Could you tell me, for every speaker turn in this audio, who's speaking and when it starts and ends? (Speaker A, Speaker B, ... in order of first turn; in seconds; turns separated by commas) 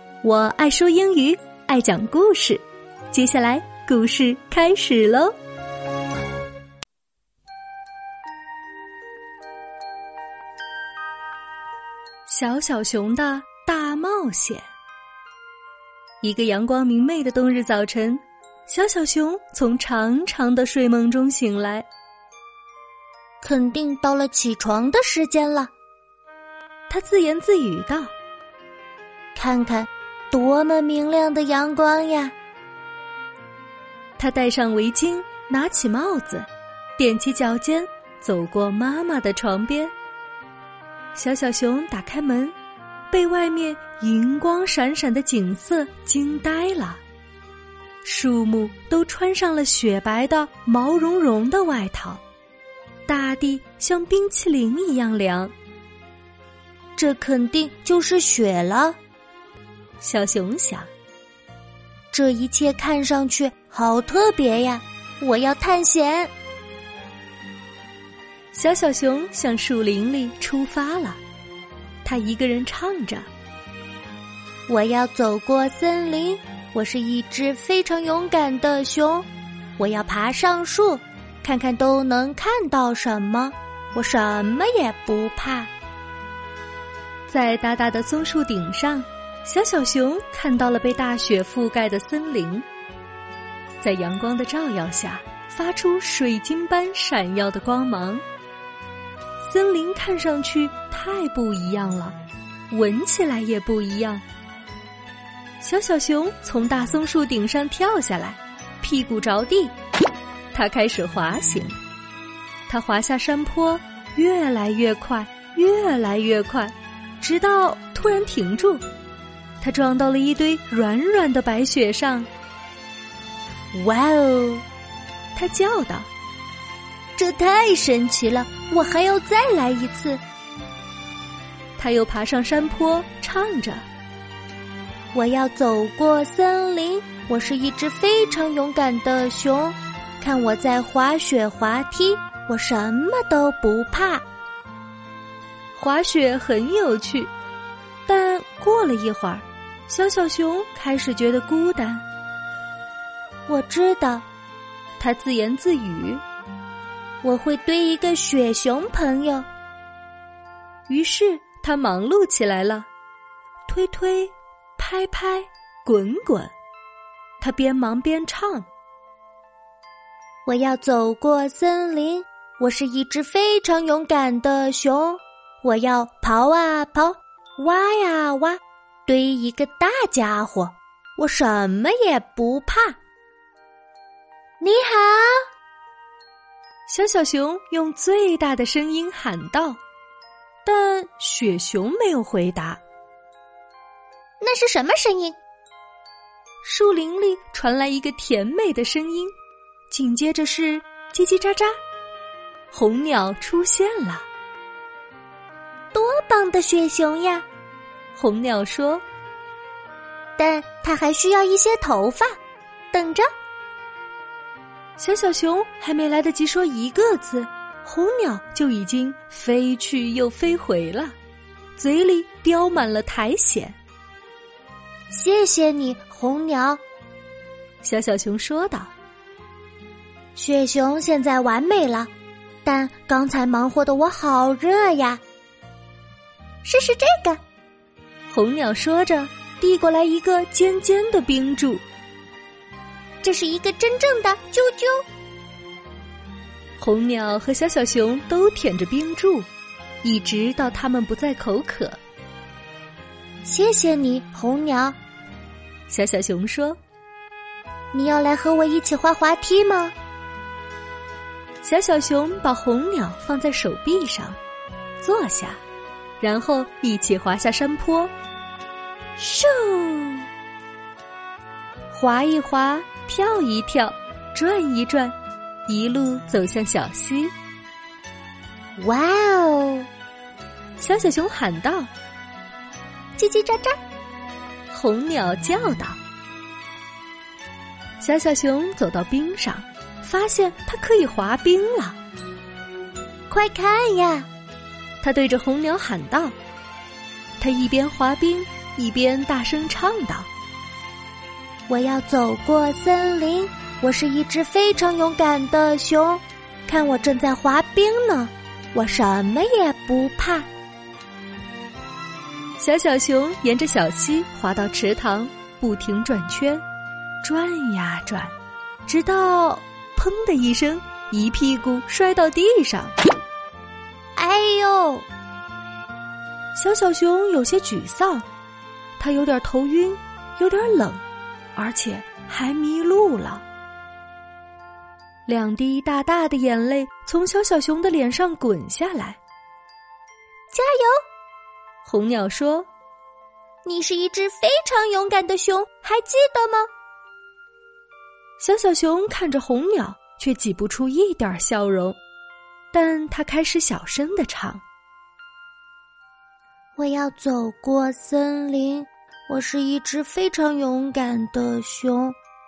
Speaker A: 0.2-5.3, Speaker A: 12.3-14.7, Speaker A: 16.2-21.9, Speaker B: 23.4-25.7, Speaker A: 26.9-28.1, Speaker B: 29.3-32.3, Speaker A: 34.2-39.9, Speaker A: 41.1-42.5, Speaker A: 43.1-47.0, Speaker A: 48.0-52.2, Speaker A: 53.1-55.5, Speaker B: 57.0-59.0, Speaker A: 60.0-60.9, Speaker B: 62.1-66.3, Speaker A: 68.5-71.2, Speaker A: 72.0-73.3, Speaker B: 74.7-79.3, Speaker B: 79.8-85.7, Speaker A: 87.3-92.7, Speaker A: 93.8-98.2, Speaker A: 99.4-102.2, Speaker A: 102.7-104.2, Speaker A: 105.6-109.7, Speaker A: 110.5-111.8, Speaker A: 112.7-118.8, Speaker A: 119.6-122.3, Speaker B: 123.7-124.6, Speaker A: 125.3-126.1, Speaker B: 127.2-130.2, Speaker A: 131.8-133.8, Speaker B: 135.1-144.2, Speaker A: 145.7-147.3, Speaker A: 148.1-152.0, Speaker B: 153.5-154.2, Speaker A: 155.0-156.2, Speaker B: 157.2-159.4, Speaker A: 160.9-162.9, Speaker A: 163.7-166.5, Speaker A: 167.4-168.7, Speaker B: 170.4-182.9, Speaker B: 184.6-185.5, Speaker A: 186.9-189.8, Speaker A: 190.6-192.8, Speaker B: 194.4-195.4, Speaker A: 196.6-199.3, Speaker A: 199.9-201.8, Speaker A: 202.7-204.3, Speaker B: 205.9-207.4, Speaker A: 208.1-209.0, Speaker B: 210.4-212.4, Speaker B: 212.9-213.3, Speaker A: 215.0-221.2, Speaker A: 221.8-223.8, Speaker B: 225.1-226.8, Speaker A: 227.8-228.9, Speaker B: 230.3-232.1, Speaker B: 232.6-235.2, Speaker B: 236.6-237.4, Speaker A: 238.3-241.8, Speaker B: 243.2-245.0, Speaker A: 246.8-249.5, Speaker A: 250.0-252.0, Speaker B: 253.4-255.0, Speaker A: 255.9-256.8, Speaker B: 257.9-259.9, Speaker A: 261.6-264.4, Speaker A: 265.0-265.6, Speaker A: 266.2-268.1, Speaker B: 269.2-270.3, Speaker A: 271.9-275.1, Speaker A: 275.7-277.3, Speaker B: 278.8-279.9, Speaker A: 280.8-281.9, Speaker B: 283.2-283.8, Speaker A: 284.7-286.0, Speaker A: 288.0-292.0, Speaker B: 293.3-294.3, Speaker A: 295.0-296.4, Speaker A: 297.4-300.3, Speaker B: 301.7-310.5, Speaker A: 312.6-316.6, Speaker A: 317.2-318.3, Speaker A: 318.9-322.9, Speaker B: 324.1-325.1, Speaker A: 326.5-328.2, Speaker A: 329.0-331.0, Speaker A: 331.6-333.4, Speaker A: 335.2-339.2, Speaker B: 340.5-341.0, Speaker A: 341.8-342.7, Speaker B: 343.6-346.7, Speaker A: 348.4-352.0, Speaker A: 352.7-354.6, Speaker B: 356.8-362.2